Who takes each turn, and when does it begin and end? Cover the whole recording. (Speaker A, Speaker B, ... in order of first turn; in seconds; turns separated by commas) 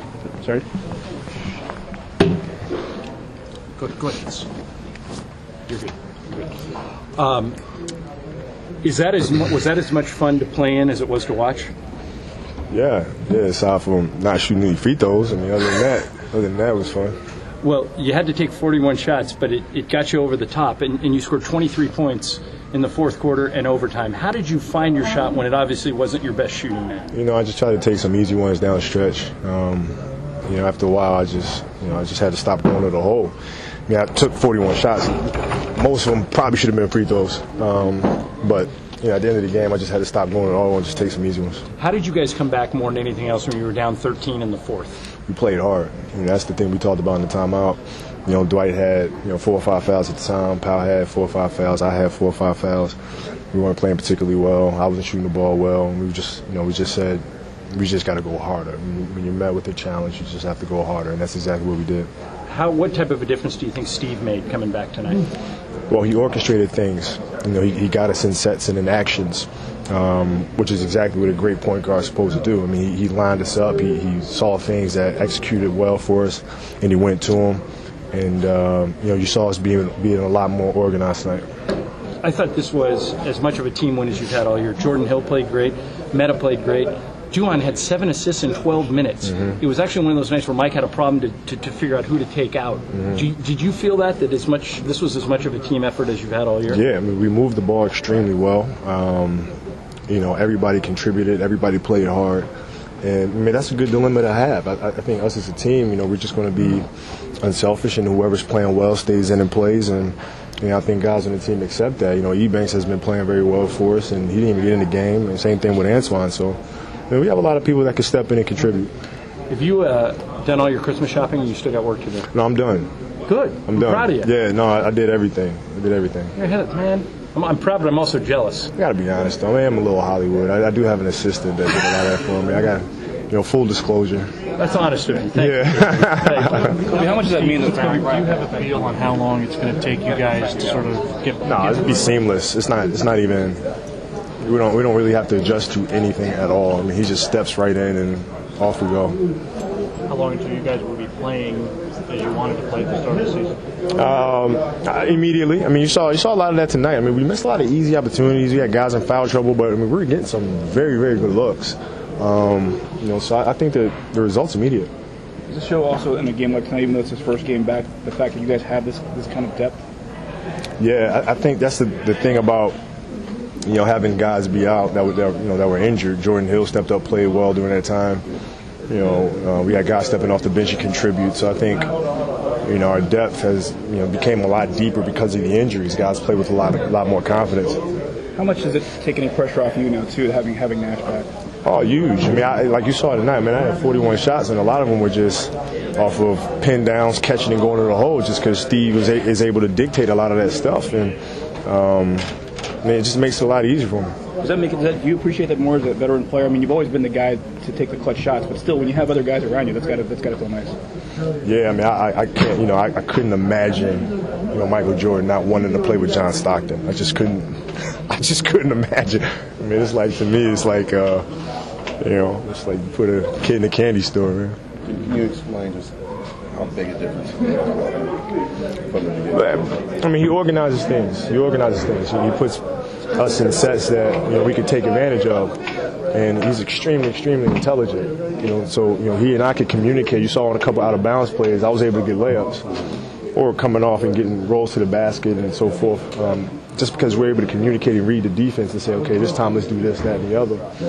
Speaker A: 3.8-4.5, Speaker A: 5.7-6.5, Speaker A: 7.2-7.6, Speaker A: 8.8-11.7, Speaker B: 12.7-17.2, Speaker A: 17.6-27.1, Speaker B: 27.1-33.3, Speaker B: 33.9-41.6, Speaker A: 41.8-45.0, Speaker B: 45.3-53.0, Speaker B: 53.5-57.2, Speaker B: 57.7-62.1, Speaker A: 62.5-65.3, Speaker B: 65.9-77.6, Speaker B: 78.1-81.4, Speaker A: 82.2-96.8, Speaker B: 96.7-99.5, Speaker B: 100.1-102.5, Speaker B: 103.0-106.9, Speaker B: 107.4-116.6, Speaker B: 117.1-118.9, Speaker A: 119.5-122.3, Speaker B: 122.3-122.9, Speaker A: 123.3-124.3, Speaker B: 123.7-126.3, Speaker A: 126.3-128.7, Speaker B: 128.8-134.3, Speaker A: 134.6-138.2, Speaker B: 135.4-136.8, Speaker C: 136.9-138.0, Speaker D: 137.2-141.9, Speaker B: 141.4-143.6, Speaker B: 144.4-149.2, Speaker D: 150.1-153.6, Speaker B: 153.9-164.9, Speaker C: 165.5-169.8, Speaker B: 170.8-172.8, Speaker B: 173.7-178.2, Speaker B: 178.9-181.9, Speaker B: 182.6-187.8, Speaker C: 188.3-191.3, Speaker B: 191.7-202.3, Speaker B: 202.8-204.2, Speaker C: 204.4-210.8, Speaker B: 211.4-221.3, Speaker B: 222.0-224.6, Speaker E: 224.8-225.9, Speaker E: 226.5-228.2, Speaker E: 228.9-229.6, Speaker B: 229.3-235.6, Speaker B: 236.1-242.7, Speaker B: 243.3-250.7